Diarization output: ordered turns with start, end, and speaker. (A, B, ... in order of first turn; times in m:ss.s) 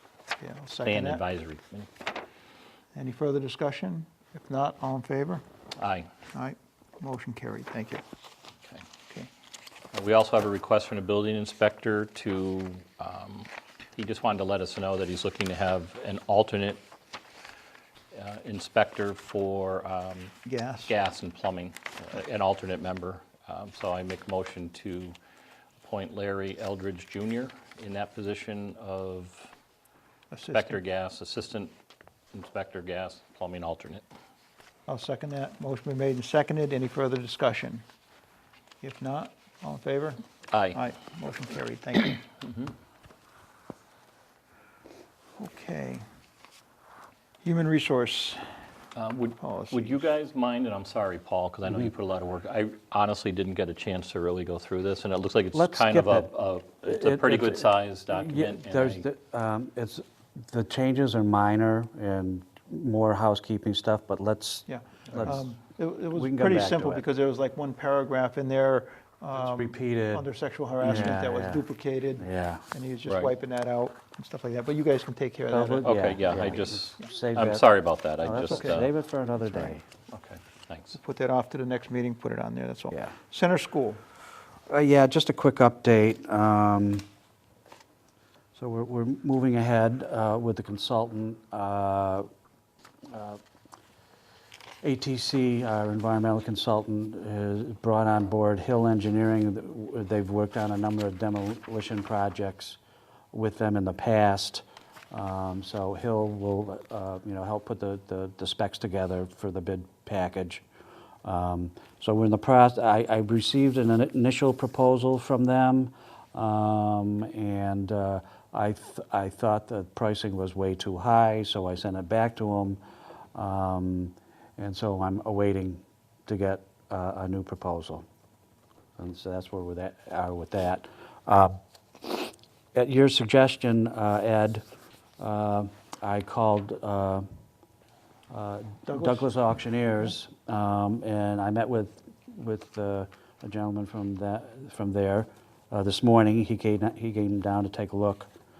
0:00.4-0:01.2 A
0:00.8-0:01.9 B
0:03.0-0:05.4 A
0:05.8-0:06.1 B
0:06.3-0:08.0 A
0:09.9-0:16.8 B
0:18.1-0:20.3 B
0:20.5-0:20.9 A
0:20.9-0:25.2 B
0:25.8-0:29.5 B
0:30.3-0:30.8 A
0:30.5-0:31.7 B
0:32.3-0:34.0 B
0:34.9-0:37.8 A
0:38.8-0:40.2 A
0:40.5-0:40.8 B
0:40.8-0:42.2 A
0:45.4-0:46.0 A
0:47.4-0:48.4 A
0:49.0-0:59.0 B
0:49.4-0:50.0 A
0:51.7-0:51.9 C
0:55.5-0:56.3 C
0:56.8-1:05.4 C
1:04.7-1:15.9 A
1:06.2-1:07.0 C
1:09.4-1:10.2 C
1:10.8-1:11.6 C
1:12.2-1:12.6 C
1:15.5-1:17.7 C
1:15.8-1:18.9 B
1:18.2-1:19.8 C
1:18.4-1:18.9 A
1:19.5-1:19.8 A
1:20.1-1:21.0 B
1:21.0-1:24.0 A
1:24.7-1:27.0 C
1:28.6-1:32.3 C
1:33.1-1:33.4 C
1:34.8-1:42.8 C
1:43.3-1:50.6 C
1:51.2-2:02.8 C
2:03.4-2:08.0 C
2:09.0-2:14.6 C
2:15.2-2:17.2 C
2:18.3-2:28.3 C
2:18.9-2:19.3 A